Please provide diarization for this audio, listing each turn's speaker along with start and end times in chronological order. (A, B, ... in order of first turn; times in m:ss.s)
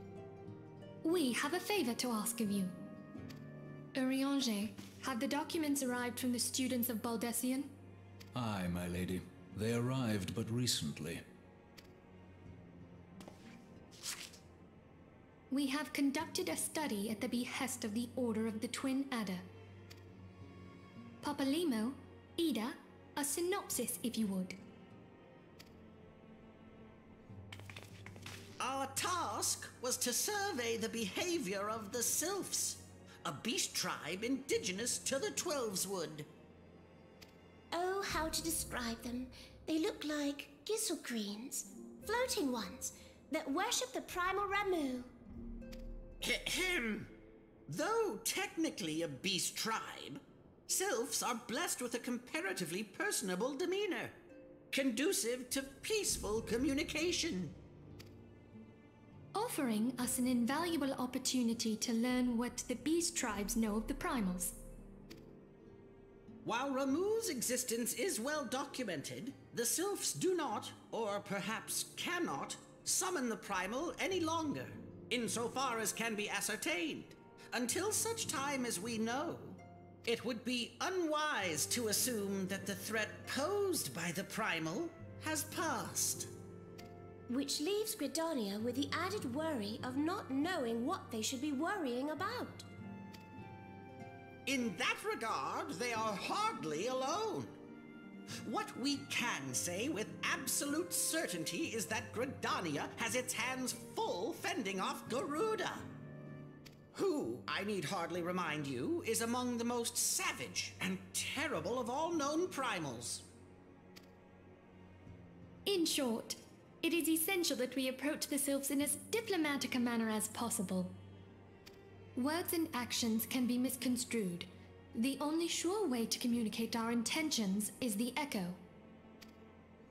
0:01.0-0:02.8 A
0:04.0-0:07.7 A
0:08.4-0:11.2 B
0:15.5-0:19.4 A
0:21.2-0:24.6 A
0:28.6-0:36.3 C
0:37.7-0:45.1 D
0:46.2-0:47.1 C
0:47.7-0:54.1 C
0:54.7-0:57.5 C
0:59.4-1:04.6 A
1:06.4-1:26.3 C
1:27.3-1:32.7 D
1:34.5-1:37.6 C
1:38.4-1:45.9 C
1:46.9-1:53.2 C
1:55.7-2:00.9 A
2:02.2-2:08.6 A